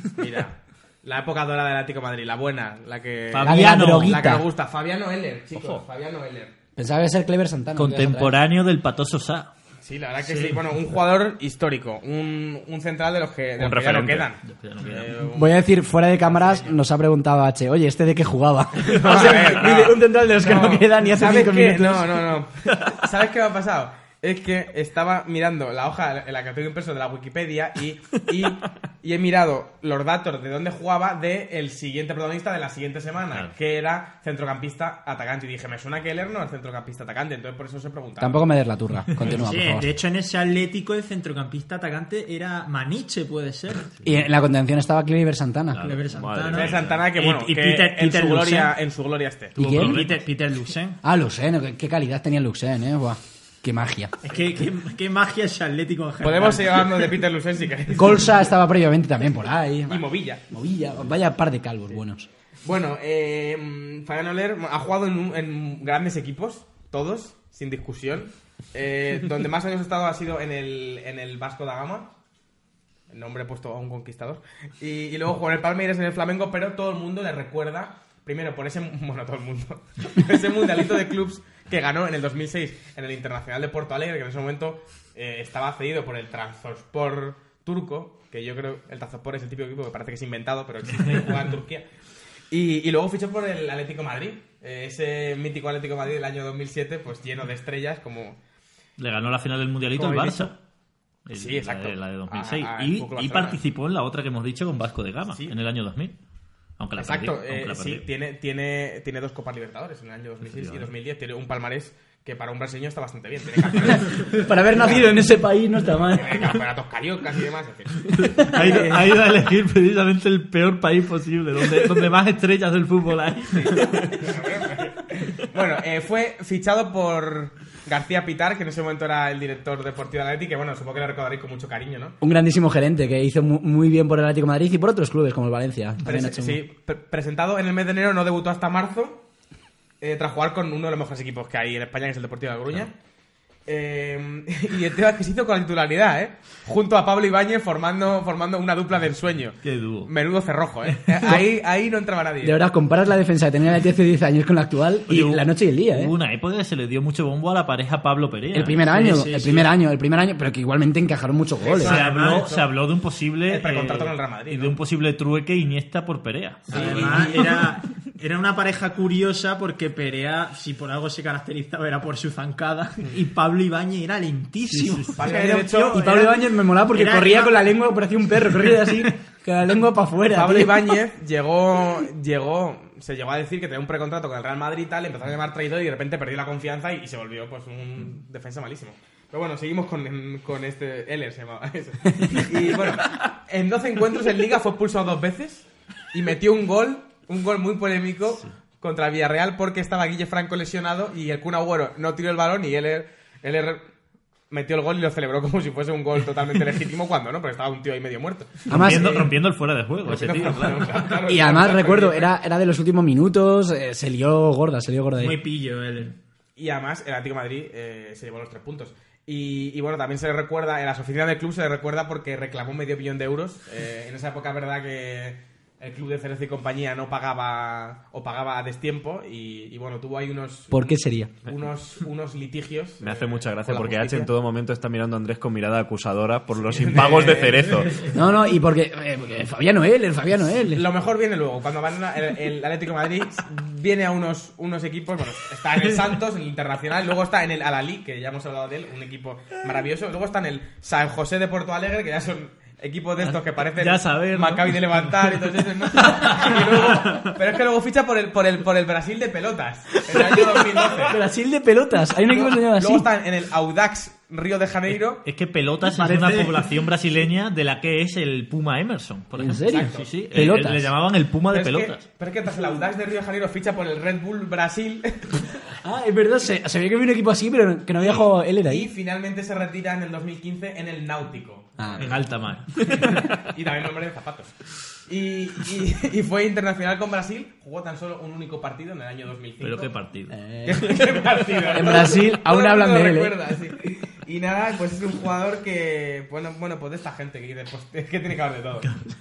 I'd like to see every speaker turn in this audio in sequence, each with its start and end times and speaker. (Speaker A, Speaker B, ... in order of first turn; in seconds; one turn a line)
Speaker A: 0.2-6.5
Speaker B: 3.3-4.3
Speaker C: 3.4-4.5
Speaker D: 5.5-5.8
Speaker C: 6.8-8.4
Speaker B: 7.8-9.5
Speaker A: 9.8-15.6
Speaker E: 10.2-10.7
Speaker D: 13.6-14.3
Speaker B: 14.5-15.3
Speaker C: 15.3-22.4
Speaker A: 18.8-38.4
Speaker C: 38.2-39.9
Speaker E: 39.3-44.0
Speaker C: 44.0-45.8
Speaker B: 45.7-47.0
Speaker E: 45.8-48.8
Speaker D: 46.1-47.0
Speaker A: 46.5-49.6
Speaker C: 49.6-50.0
Speaker B: 49.6-50.2
Speaker E: 49.6-51.0
Speaker C: 51.0-54.1
Speaker E: 54.2-57.0
Speaker A: 56.2-58.4
Speaker C: 57.9-62.3
Speaker A: 59.9-60.4
Speaker A: 62.6-72.1
Speaker A: 73.1-91.9
Speaker A: 92.5-98.4
Speaker B: 99.0-100.6
Speaker A: 100.0-100.5
Speaker B: 101.3-106.2
Speaker A: 101.3-103.6
Speaker B: 106.8-108.0
Speaker A: 107.0-115.3
Speaker B: 110.5-110.9
Speaker C: 113.8-116.5
Speaker A: 116.1-119.2
Speaker B: 118.1-124.1
Speaker A: 123.5-132.2
Speaker C: 132.2-136.6
Speaker A: 136.0-139.2
Speaker A: 140.0-142.9
Speaker A: 143.7-152.6
Speaker B: 149.6-150.1
Speaker C: 152.4-156.1
Speaker B: 155.1-158.8
Speaker C: 158.5-162.0
Speaker E: 158.9-159.7
Speaker A: 161.6-162.7
Speaker B: 161.8-167.6
Speaker E: 161.8-162.7
Speaker A: 163.5-164.8
Speaker E: 166.7-177.7
Speaker A: 166.7-167.6
Speaker C: 174.7-181.0
Speaker A: 175.2-176.1
Speaker E: 178.4-179.1
Speaker A: 180.3-203.8
Speaker A: 204.5-208.7
Speaker B: 208.7-211.0
Speaker C: 208.7-209.3
Speaker A: 210.1-212.3
Speaker C: 211.2-215.4
Speaker E: 215.2-216.2
Speaker A: 216.6-234.3
Speaker C: 230.7-231.3
Speaker D: 233.0-238.1
Speaker A: 236.7-238.1
Speaker C: 238.1-240.9
Speaker A: 240.7-261.2
Speaker B: 253.2-255.1
Speaker B: 256.1-257.1
Speaker C: 260.1-263.1
Speaker A: 262.3-265.2
Speaker B: 265.2-272.0
Speaker E: 265.8-266.8
Speaker C: 269.4-270.9
Speaker A: 269.7-270.1
Speaker A: 271.5-275.6
Speaker C: 275.8-278.9
Speaker A: 278.0-282.1
Speaker C: 281.8-282.1
Speaker B: 282.0-282.9
Speaker A: 282.9-289.9
Speaker B: 289.6-290.4
Speaker C: 290.3-293.4
Speaker A: 290.6-299.0